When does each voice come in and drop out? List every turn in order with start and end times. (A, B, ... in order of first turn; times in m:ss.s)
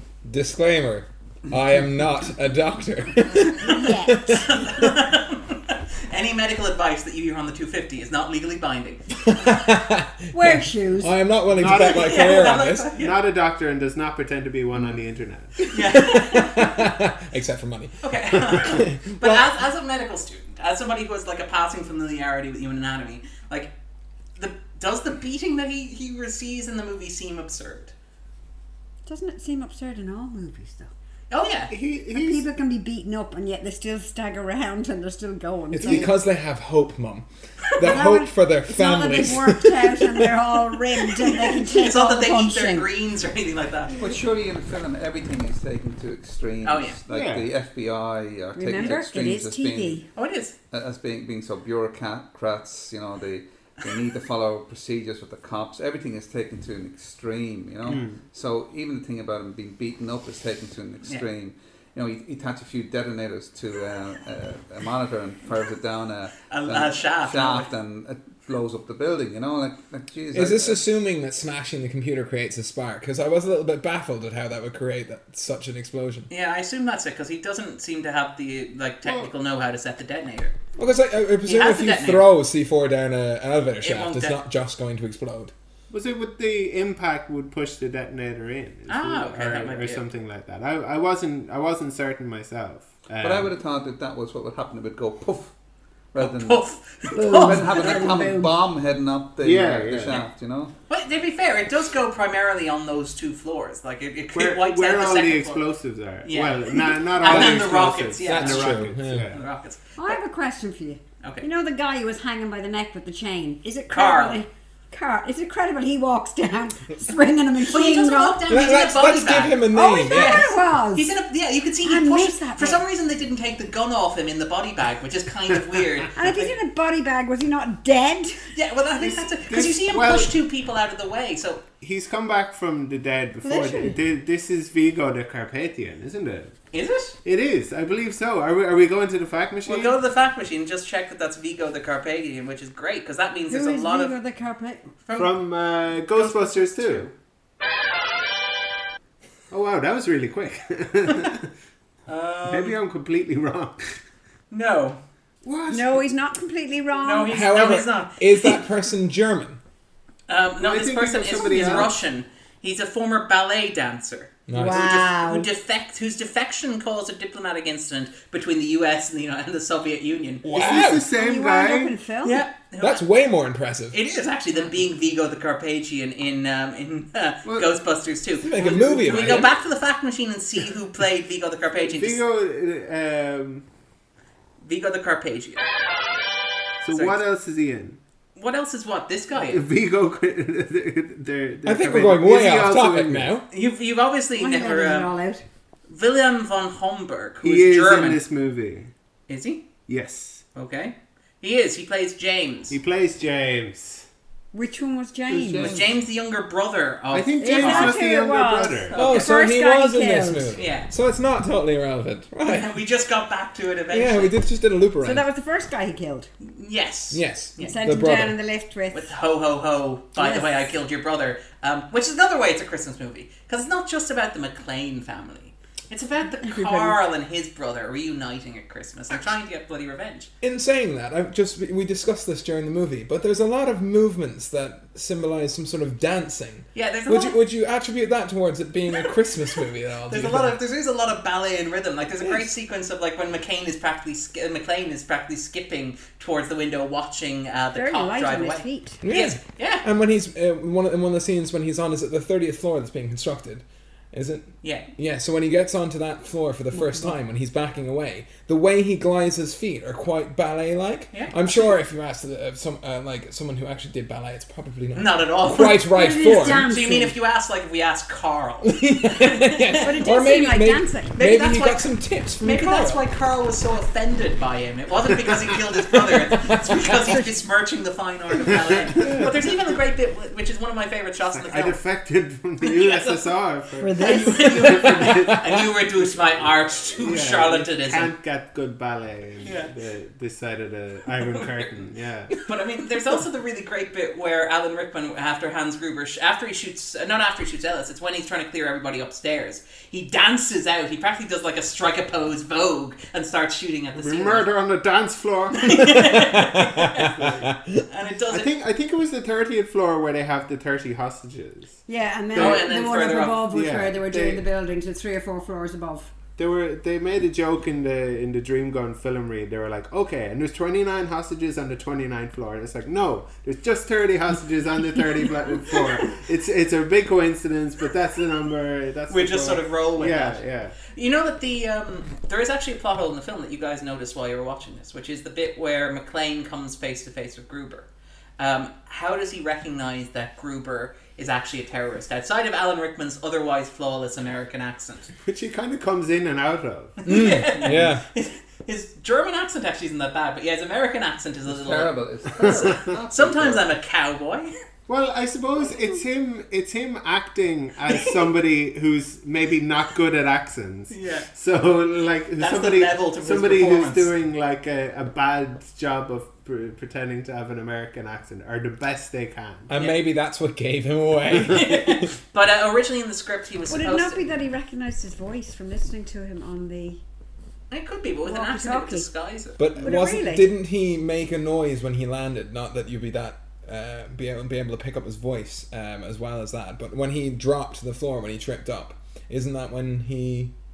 0:00.2-0:04.5 A
0:03.6-0:04.4 B
0:04.3-0:09.1 C
0:09.2-0:12.9 A
0:10.3-0:11.2 B
0:11.5-0:15.7 D
0:11.8-0:13.2 C
0:15.7-0:16.9 C
0:15.8-0:19.4 A
0:18.0-0:23.7 C
0:24.4-0:27.9 C
0:29.1-0:30.9 B
0:31.3-0:31.7 C
0:31.7-0:32.5 D
0:32.1-0:36.1 B
0:35.7-0:40.3 A
0:37.8-0:42.9 B
0:41.5-0:44.0 C
0:43.9-0:50.1 E
0:46.6-0:47.0 C
0:47.1-0:47.5 D
0:48.6-0:50.1 B
0:50.2-0:50.6 C
0:50.7-1:10.8 E
0:57.9-0:58.2 D
1:06.5-1:07.7 C
1:10.3-1:16.3 A
1:16.3-1:20.6 C
1:19.0-1:19.3 D
1:20.8-1:25.5 A
1:21.4-1:22.3 C
1:23.8-1:24.4 C
1:25.9-1:33.5 D
1:28.9-1:30.0 C
1:33.2-1:35.6 E
1:36.1-1:36.6 E
1:36.2-1:38.1 C
1:37.1-1:38.6 B
1:37.2-1:40.7 E
1:39.4-1:40.2 D
1:40.9-1:45.6 C
1:44.3-1:49.4 D
1:46.2-1:50.2 C
1:47.2-1:47.6 A
1:48.2-1:49.3 A
1:50.0-1:58.4 B
1:53.9-1:54.4 C
1:57.7-2:06.5 C
1:58.5-2:00.5 A
1:59.7-2:01.1 B
2:01.8-2:02.8 B
2:06.2-2:08.4 B
2:08.5-2:11.6 C
2:09.0-2:10.3 D
2:11.8-2:16.6 D
2:13.4-2:14.0 B
2:16.7-2:17.2 C
2:17.2-2:20.0 D
2:19.7-2:24.2 C
2:23.5-2:24.9 B
2:25.1-2:25.4 C
2:25.2-2:27.1 D
2:26.1-2:27.1 C
2:29.5-2:31.5 D
2:32.1-2:32.8 C
2:32.5-2:33.9 D
2:34.5-2:35.0 C
2:35.4-2:36.0 D
2:35.7-2:37.4 B
2:37.0-2:38.6 C
2:37.3-2:39.6 A
2:40.3-2:50.5 C
2:40.6-2:42.0 D
2:44.5-2:44.9 A
2:44.5-2:45.5 B
2:50.4-2:51.1 A
2:50.5-2:52.0 D
2:50.9-2:52.4 B
2:52.2-2:53.0 C
2:52.8-2:54.0 A
2:53.9-3:02.2 C
2:58.4-2:59.5 A
2:58.6-2:59.5 D
3:01.8-3:03.7 D
3:04.6-3:05.6 C
3:06.8-3:08.0 D
3:06.9-3:07.2 C
3:08.4-3:09.7 C
3:09.3-3:13.4 D
3:11.6-3:13.5 A
3:13.5-3:15.1 C
3:14.4-3:15.4 B
3:15.9-3:18.2 C
3:17.4-3:18.9 D
3:19.3-3:19.7 C
3:19.9-3:20.4 D
3:20.6-3:22.8 C
3:22.7-3:24.1 D
3:24.5-3:25.8 B
3:25.3-3:25.9 E
3:25.6-3:28.0 C
3:27.1-3:29.0 D
3:27.4-3:30.6 B
3:28.9-3:29.4 C
3:29.0-3:32.7 A
3:30.6-3:30.9 C
3:32.4-3:34.4 C
3:33.9-3:35.3 A
3:35.0-3:36.3 B
3:36.4-3:37.9 C
3:37.1-3:38.4 A
3:37.6-3:39.1 B
3:38.9-3:50.3 C
3:40.2-3:40.5 B
3:46.4-3:47.0 B
3:50.4-4:00.6 A
3:56.8-3:57.4 C
4:00.1-4:09.8 C
4:02.2-4:02.5 A
4:07.8-4:09.0 B
4:09.0-4:26.7 A
4:14.6-4:14.9 C
4:21.1-4:21.5 C
4:25.0-4:30.0 C
4:25.9-4:27.2 B
4:28.6-4:33.0 A
4:29.8-4:31.1 B
4:31.2-4:41.8 C
4:36.5-4:36.9 A
4:39.0-4:39.3 A
4:41.3-4:45.6 D
4:42.6-4:43.3 C
4:43.8-4:44.6 B
4:44.0-4:48.1 C
4:45.0-4:45.3 A
4:46.8-4:52.4 D
4:49.4-4:49.7 C
4:51.1-4:51.7 C
4:52.3-5:04.5 C
5:04.0-5:06.2 D
5:05.5-5:07.3 C
5:06.1-5:07.8 A
5:07.0-5:07.5 D
5:07.9-5:08.5 C
5:08.3-5:11.8 D
5:11.9-5:16.1 B
5:12.3-5:12.7 D
5:12.4-5:13.5 C
5:13.5-5:14.4 D
5:16.4-5:30.8 D
5:29.1-5:37.9 C
5:38.4-5:45.1 C
5:45.3-5:47.8 D
5:47.0-5:54.5 C
5:47.1-5:48.0 A
5:51.5-5:53.7 E
5:52.4-5:52.9 D
5:54.9-6:09.7 D
5:57.9-5:58.2 C
6:00.9-6:01.3 C
6:02.4-6:04.1 C
6:09.7-6:12.1 A
6:11.5-6:14.2 C
6:13.7-6:17.0 B
6:17.7-6:19.6 C
6:18.2-6:19.1 B
6:19.6-6:30.5 A
6:19.8-6:20.5 B